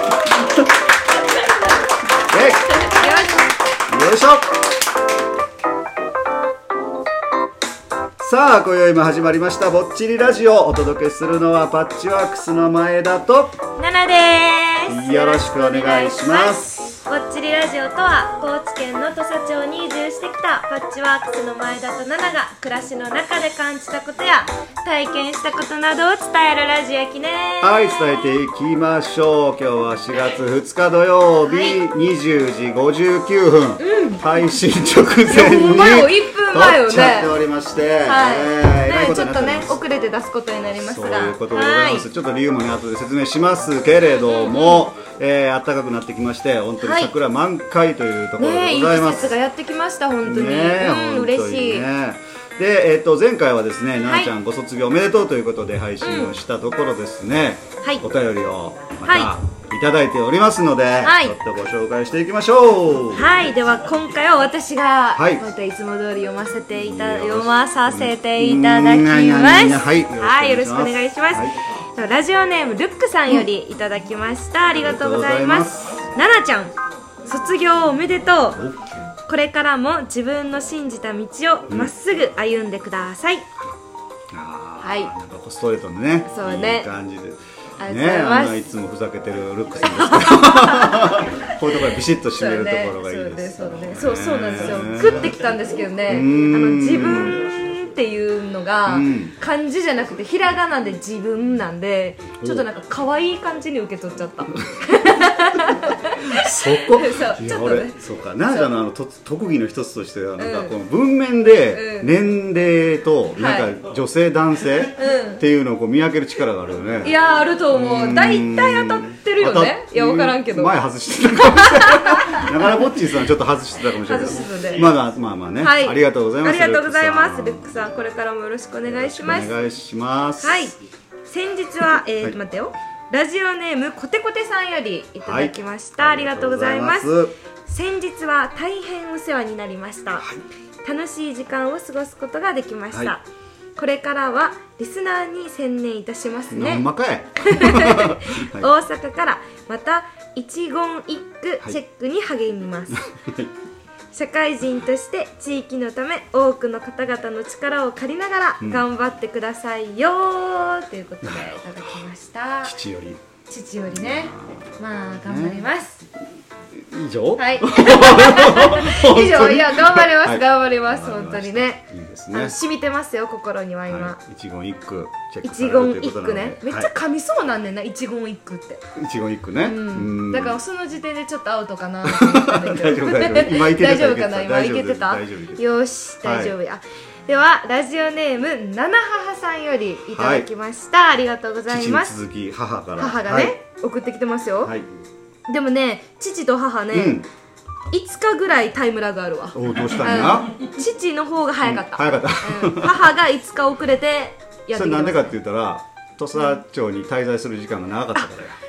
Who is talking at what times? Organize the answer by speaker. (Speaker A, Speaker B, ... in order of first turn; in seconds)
Speaker A: 2.3-2.9, 3.9-4.5, 8.2-13.6, 14.9-16.7, 27.6-39.8, 40.8-49.4, 50.2-63.3, 65.2-65.4, 66.8-71.6, 74.8-76.0, 78.6-78.9, 84.3-95.4, 96.1-97.4, 98.9-99.3, 102.4-102.7, 106.4-117.2, 117.7-127.8, 128.8-130.7, 135.2-137.3, 146.5-148.7, 153.1-153.5, 161.2-161.5, 162.6-163.2, 163.9-165.7, 166.9-172.6, 173.9-176.9, 179.0-180.6, 182.1-185.6, 186.2-186.6, 190.1-190.5, 191.7-193.5, 196.9-197.3, 199.5-200.5, 201.6-203.1, 204.7-208.6
Speaker B: 2.8-3.5, 13.8-28.4, 31.4-31.8, 33.8-34.2, 35.3-37.3, 38.0-42.0, 44.2-44.8, 46.8-47.1, 48.4-51.9, 54.0-54.3, 56.0-56.4, 59.0-59.3, 61.0-61.4, 63.1-78.6, 79.3-83.5, 84.8-85.1, 86.3-86.9, 87.8-88.7, 89.9-91.3, 92.3-108.7, 110.4-110.7, 111.7-112.1, 113.4-113.7, 115.0-115.4, 117.0-120.8, 121.3-122.8, 124.0-124.9, 125.6-129.5, 130.4-130.8, 131.3-137.1, 137.7-140.3, 140.8-143.2, 143.8-146.9, 147.4-153.1, 154.1-162.7, 163.5-166.0, 167.4-174.2, 175.4-178.8, 179.6-192.1, 193.0-194.7, 195.5-197.2, 197.9-205.3